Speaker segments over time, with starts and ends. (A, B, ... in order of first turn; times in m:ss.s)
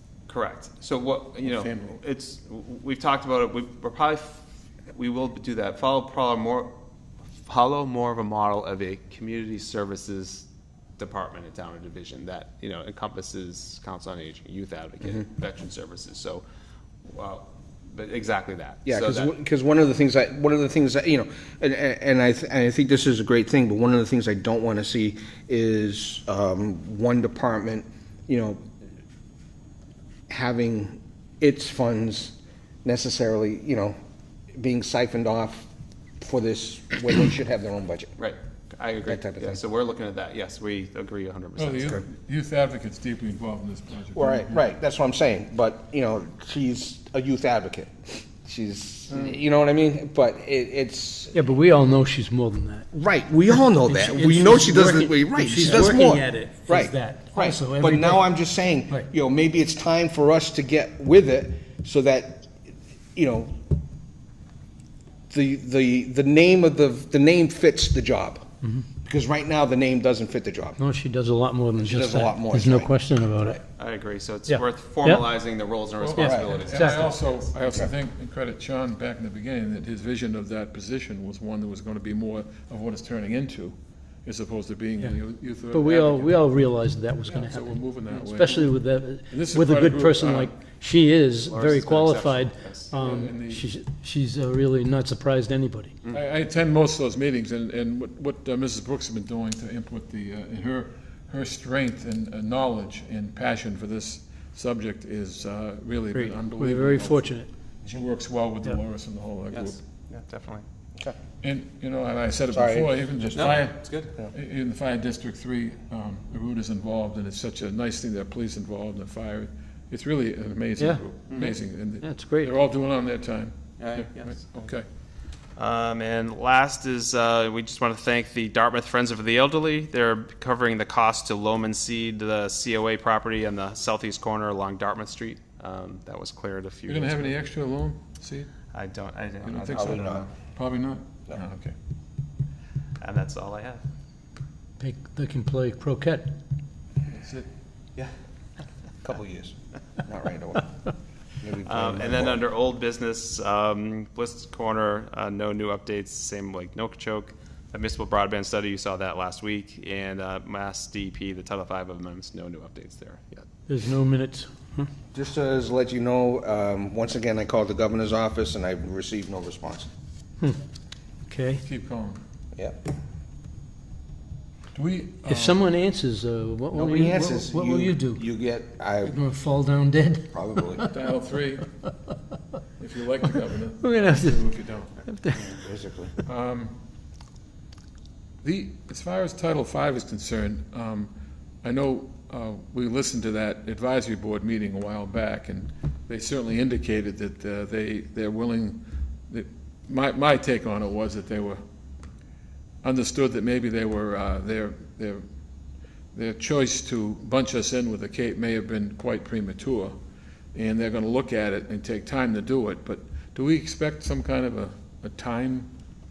0:00.3-0:04.4 A
0:01.4-0:02.0 B
0:04.9-0:06.7 A
0:07.5-0:10.5 A
0:11.0-0:16.4 A
0:17.1-0:19.3 A
0:18.8-0:28.6 C
0:30.3-0:34.0 C
0:34.5-0:35.7 C
0:36.2-0:38.1 C
0:38.2-0:42.0 A
0:39.0-0:39.6 C
0:41.6-0:44.6 B
0:44.2-0:51.4 C
0:51.3-0:52.9 D
0:52.9-1:02.5 C
0:53.5-0:59.0 D
1:03.2-1:03.6 C
1:05.3-1:08.5 C
1:09.0-1:10.8 C
1:10.8-1:13.6 D
1:11.8-1:13.6 C
1:13.8-1:17.2 A
1:14.5-1:15.2 D
1:16.0-1:26.5 B
1:16.2-1:17.2 D
1:16.2-1:16.5 C
1:25.7-1:36.0 D
1:27.3-1:28.8 B
1:29.3-1:30.5 B
1:31.4-1:33.0 A
1:33.0-1:33.6 B
1:36.1-1:49.8 B
1:46.1-1:47.5 D
1:49.5-1:50.6 A
1:51.4-2:04.9 B
1:52.5-1:53.6 C
1:53.3-1:54.1 A
2:01.3-2:01.6 A
2:02.0-2:02.5 D
2:03.8-2:04.7 A
2:05.6-2:17.4 A
2:16.9-2:18.5 B
2:18.7-2:20.3 A
2:19.4-2:21.8 B
2:19.7-2:20.3 C
2:23.0-2:23.8 A
2:24.8-2:26.3 D
2:27.1-2:27.5 B
2:29.0-2:30.7 C
2:31.4-2:32.4 C
2:31.6-2:43.4 A
2:43.7-2:44.9 D
2:45.1-2:49.9 C
2:51.3-2:51.6 D
2:51.6-2:52.2 B
2:52.6-2:52.8 C
2:54.7-2:55.6 B
2:55.3-2:58.2 D
2:56.7-2:59.2 C
2:59.0-3:00.9 D
3:00.3-3:00.9 C
3:00.9-3:01.7 B
3:02.8-3:05.0 B
3:03.8-3:04.4 D
3:05.0-3:05.5 D
3:05.4-3:06.2 C
3:06.3-3:06.8 B
3:08.4-3:11.1 B
3:11.6-3:21.6 B
3:22.8-3:25.2 B
3:26.1-3:30.0 B
3:30.5-3:35.7 B